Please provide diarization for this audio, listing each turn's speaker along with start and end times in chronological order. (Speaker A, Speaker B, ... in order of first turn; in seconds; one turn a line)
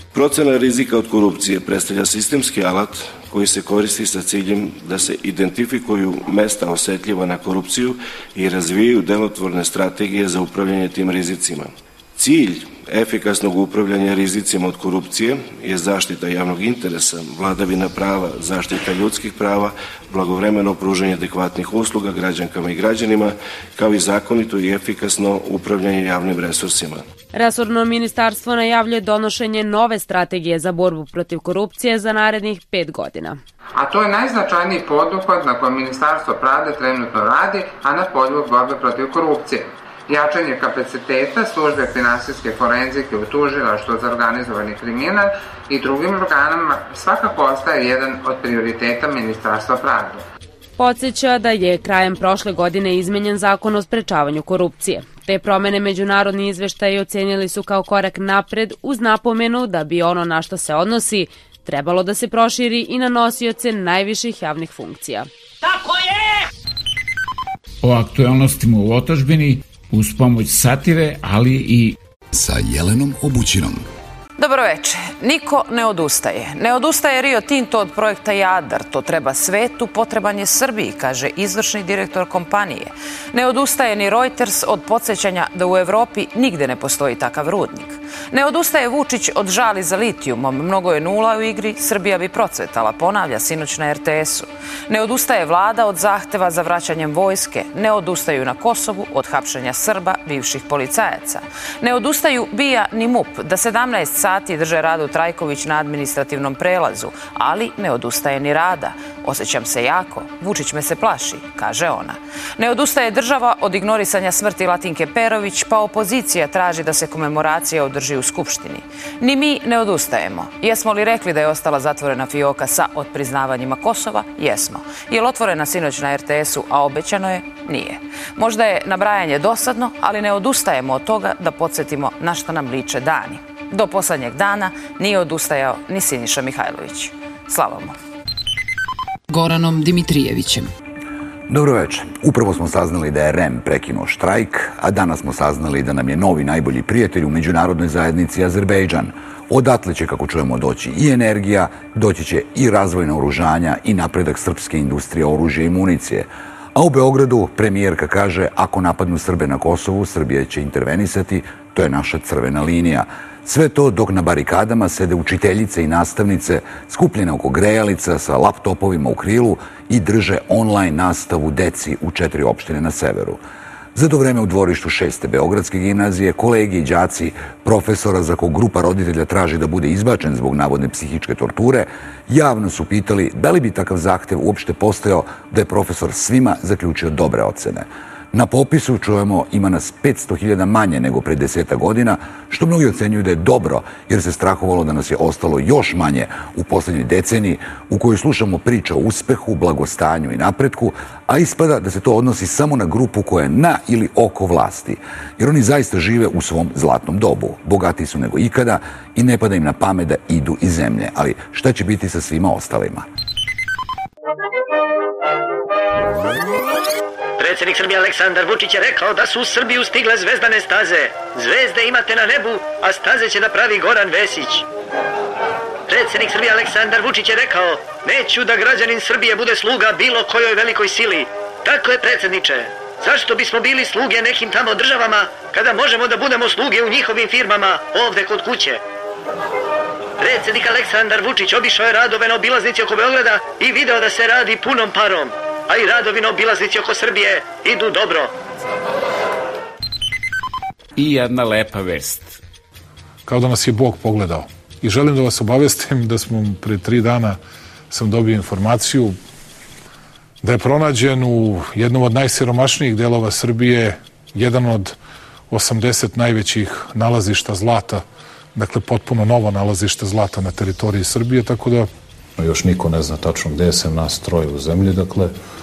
Speaker A: 0.1-27.0
Speaker B: 27.3-33.4
Speaker C: 33.8-50.2
Speaker B: 50.8-65.3
Speaker D: 67.8-72.0
Speaker E: 72.3-73.8
Speaker F: 74.4-137.9
Speaker E: 141.5-173.4
Speaker E: 173.9-213.1
Speaker G: 217.4-224.6
Speaker G: 225.9-238.8
Speaker G: 240.2-248.3
Speaker D: 250.9-252.4
Speaker H: 253.3-257.4
Speaker H: 257.9-259.1
Speaker H: 260.4-264.9
Speaker H: 265.5-268.0
Speaker H: 268.6-271.9